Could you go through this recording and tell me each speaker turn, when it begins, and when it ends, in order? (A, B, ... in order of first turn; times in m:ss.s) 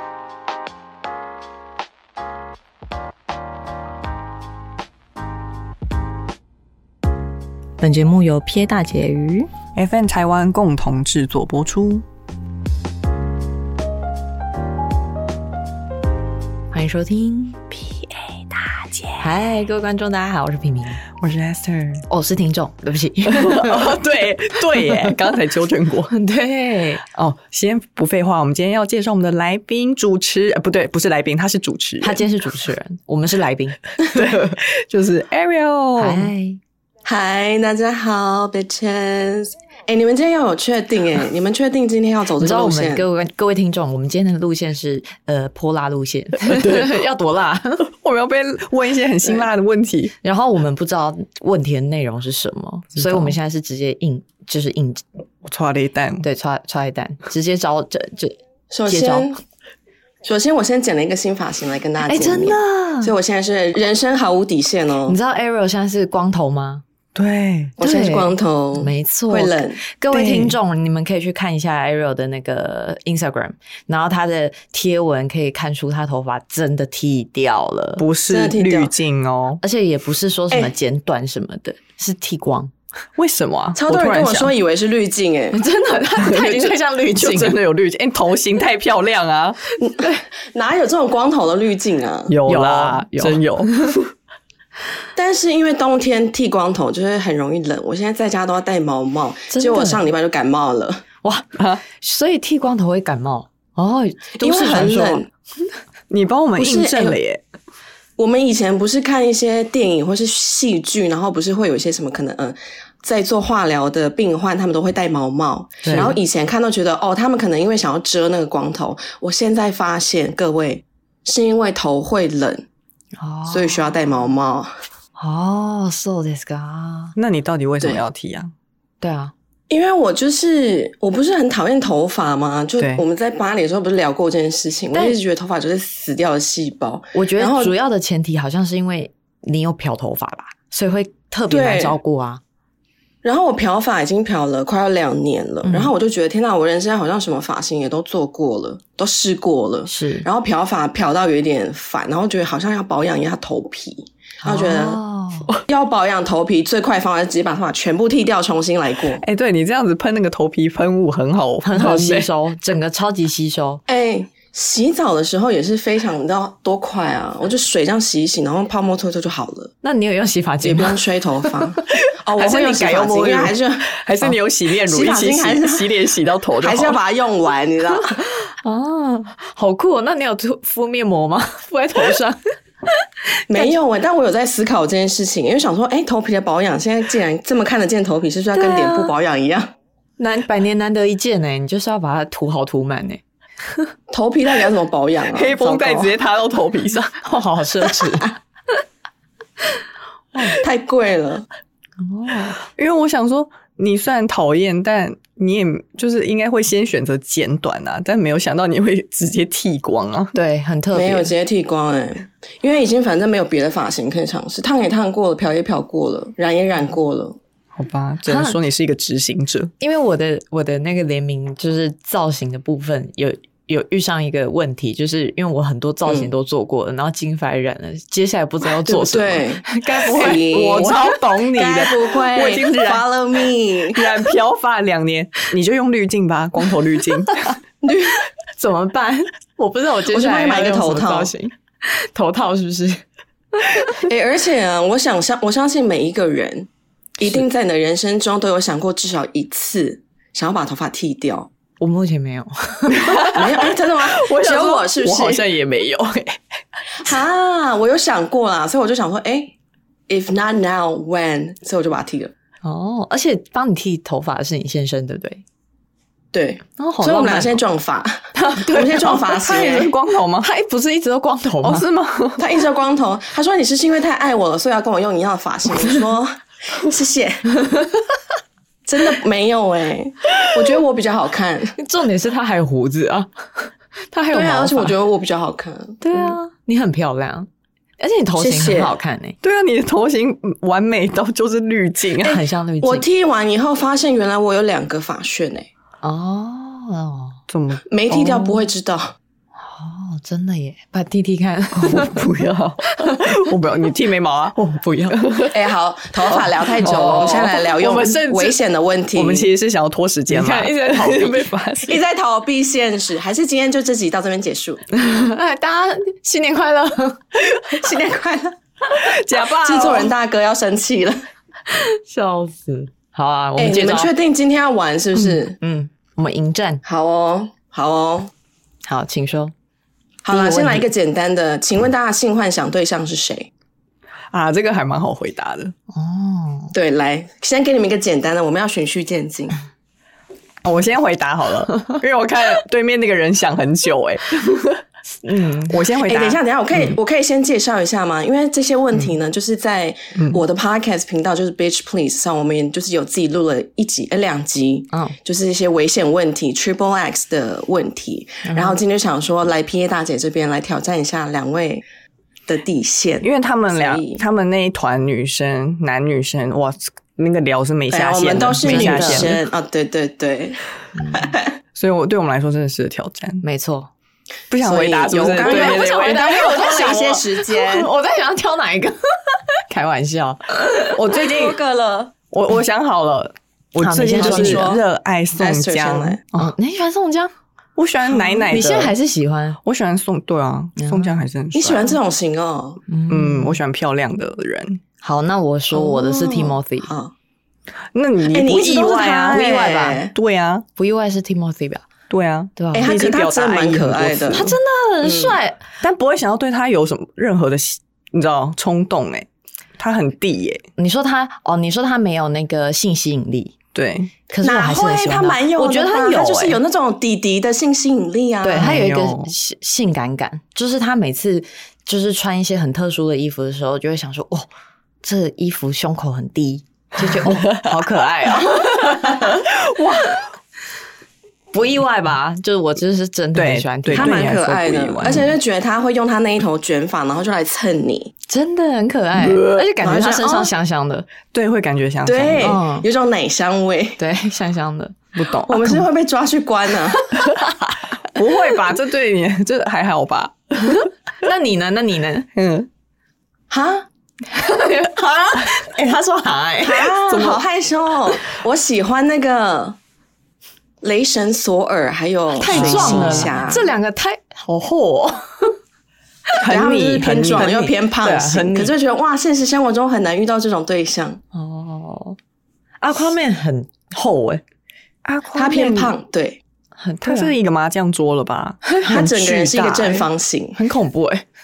0:07.8-0:09.5 A
0:09.7-0:12.0 B
0:16.7-0:17.8 A
0:19.0-0:21.0 A
0:21.2-0:22.0 B
0:22.1-0:24.0 A
0:23.2-0:26.1 B
0:24.8-0:25.1 A
0:26.1-0:27.0 A
0:27.1-0:32.2 B
0:32.0-0:33.8 A
0:34.1-0:36.3 B
0:36.0-0:36.6 A
0:37.0-0:43.0 C
0:42.4-0:47.9 A
0:46.4-0:46.9 B
0:47.9-0:50.1 B
0:50.2-0:55.0 A
0:52.9-0:53.3 B
0:55.4-0:56.2 B
0:56.2-0:58.3 A
0:58.7-0:59.4 C
0:58.8-0:59.3 A
1:00.2-1:05.2 C
1:02.0-1:03.1 A
1:05.1-1:06.8 A
1:07.1-1:07.7 B
1:07.8-1:09.8 C
1:07.8-1:18.0 A
1:10.1-1:10.6 B
1:18.0-1:19.6 B
1:18.3-1:18.9 C
1:19.6-1:22.7 A
1:23.2-1:24.5 B
1:23.7-1:25.6 C
1:25.5-1:27.6 A
1:26.2-1:29.6 B
1:29.8-1:32.3 C
1:29.8-1:30.2 A
1:32.3-1:33.7 B
1:32.4-1:34.0 A
1:35.1-1:41.0 C
1:39.5-1:40.0 A
1:41.2-1:45.2 A
1:41.6-1:41.8 B
1:44.4-1:45.3 C
1:46.1-1:47.4 B
1:46.6-1:47.2 C
1:48.2-2:02.6 C
1:55.8-1:56.1 B
1:55.9-1:56.2 A
2:03.2-2:04.1 A
2:03.5-2:04.7 C
2:05.2-2:07.2 A
2:07.2-2:08.5 B
2:09.0-2:09.3 A
2:09.7-2:17.7 C
2:12.8-2:13.0 B
2:14.9-2:15.2 A
2:17.1-2:22.4 A
2:21.5-2:22.0 C
2:23.2-2:35.0 C
2:25.6-2:25.9 A
2:29.8-2:30.3 A
2:34.4-2:35.5 A
2:35.7-2:39.2 C
2:39.2-2:42.3 B
2:41.6-2:43.8 A
2:43.9-2:49.7 C
2:49.8-2:51.0 A
2:50.6-2:53.9 C
2:52.4-2:57.0 B
2:54.8-2:56.0 C
2:56.6-2:58.2 C
2:58.6-3:02.9 A
3:03.5-3:03.7 A
3:03.5-3:09.7 C
3:08.5-3:09.1 A
3:10.2-3:13.2 A
3:14.1-3:16.1 C
3:15.3-3:17.2 B
3:17.2-3:18.3 A
3:20.5-3:21.5 C
3:22.0-3:22.6 A
3:22.6-3:30.3 B
3:30.3-3:31.3 A
3:30.9-3:37.4 C
3:37.7-3:39.7 B
3:38.2-3:38.6 A
3:39.8-3:51.2 A
3:46.0-3:46.3 C
3:48.8-3:51.0 C
3:50.1-3:53.0 B
3:51.5-3:54.0 C
3:53.9-3:57.5 B
3:57.8-3:58.3 C
3:58.6-4:03.0 A
4:00.1-4:01.3 C
4:04.0-4:11.5 C
4:11.8-4:13.4 A
4:12.9-4:16.8 B
4:13.3-4:15.4 C
4:17.0-4:19.5 C
4:20.1-4:22.3 C
4:22.6-4:25.4 A
4:26.3-4:29.9 C
4:26.8-4:27.6 A
4:28.3-4:31.9 A
4:29.5-4:30.5 B
4:31.6-4:32.4 B
4:32.4-4:37.5 C
4:37.6-4:37.9 A
4:38.8-4:41.7 C
4:41.8-4:44.9 A
4:44.3-4:46.0 C
4:46.0-4:49.4 A
4:48.4-4:48.9 C
4:49.4-4:52.4 B
4:52.2-4:53.0 A
4:52.2-4:55.7 C
4:56.0-4:57.4 A
4:57.5-4:58.5 B
4:57.8-4:59.1 C
4:59.6-5:02.3 A
5:01.7-5:04.6 B
5:02.9-5:03.4 A
5:04.6-5:05.5 A
5:05.1-5:05.5 B
5:05.5-5:09.5 C
5:06.3-5:07.4 B
5:06.8-5:08.5 A
5:09.1-5:12.0 B
5:10.3-5:11.7 A
5:11.8-5:14.8 C
5:14.9-5:17.2 A
5:17.7-5:18.6 C
5:18.9-5:20.1 B
5:19.4-5:21.2 C
5:21.7-5:24.1 A
5:23.6-5:25.6 C
5:25.2-5:26.8 A
5:26.8-5:28.3 C
5:28.8-5:29.5 A
5:30.2-5:33.5 C
5:30.3-5:30.9 A
5:34.3-5:35.7 B
5:35.9-5:36.7 A
5:36.7-5:39.6 C
5:40.6-5:44.8 B
5:45.2-5:45.8 A
5:45.7-5:47.0 B
5:46.0-6:01.8 C
5:50.2-5:50.4 B
5:58.4-5:58.8 A
6:02.5-6:04.2 C
6:03.2-6:09.4 B
6:07.9-6:11.5 C
6:08.6-6:09.4 A
6:10.9-6:11.3 A
6:11.7-6:13.4 B
6:13.4-6:13.9 A
6:14.5-6:16.4 B
6:14.6-6:17.9 C
6:15.4-6:21.0 A
6:20.9-6:21.6 B
6:21.2-6:22.1 C
6:22.3-6:26.5 B
6:23.8-6:24.7 A
6:24.1-6:24.8 C
6:25.4-6:26.2 C
6:26.3-6:27.3 A
6:27.8-6:28.9 B
6:28.5-6:29.6 A
6:29.6-6:32.0 B
6:30.8-6:31.2 A
6:31.5-6:32.8 C
6:32.9-6:33.6 A
6:33.1-6:34.8 B
6:35.0-6:36.9 A
6:35.7-6:37.1 C
6:37.9-6:40.6 B
6:38.3-6:40.1 C
6:39.3-6:40.0 A
6:40.8-6:41.8 A
6:42.1-6:44.5 B
6:42.6-6:42.9 A
6:42.7-6:44.5 C
6:44.3-6:45.6 A
6:45.0-6:45.4 C
6:45.8-6:50.6 B
6:50.8-6:53.6 A
6:53.7-6:54.1 B
6:54.3-6:56.6 A
6:54.4-6:58.8 C
6:58.4-7:04.5 A
6:58.6-6:59.3 B
7:05.0-7:09.4 A
7:07.0-7:07.8 B
7:09.3-7:10.2 B
7:11.5-7:15.3 A
7:13.3-7:15.3 B
7:13.9-7:18.1 C
7:18.3-7:21.1 A
7:19.1-7:19.6 B
7:19.8-7:20.5 C
7:21.3-7:22.6 B
7:22.0-7:24.0 C
7:22.4-7:22.9 A
7:24.0-7:25.0 A
7:25.1-7:25.8 B
7:25.4-7:27.1 C
7:27.1-7:27.8 A
7:28.1-7:30.9 B
7:30.6-7:32.3 A
7:32.3-7:32.7 B
7:33.5-7:33.8 C
7:34.3-7:37.4 A
7:36.6-7:39.8 C
7:40.8-7:43.7 C
7:42.4-7:45.5 A
7:42.4-7:43.4 B
7:46.4-7:47.7 B
7:46.4-7:51.2 C
7:47.3-7:48.7 A
7:51.3-7:52.2 A
7:52.8-7:54.4 A
7:55.0-7:55.9 B
7:55.3-7:56.4 C
7:56.8-7:57.3 A
7:57.0-7:58.6 B
7:58.6-8:01.2 A
7:58.8-8:00.6 C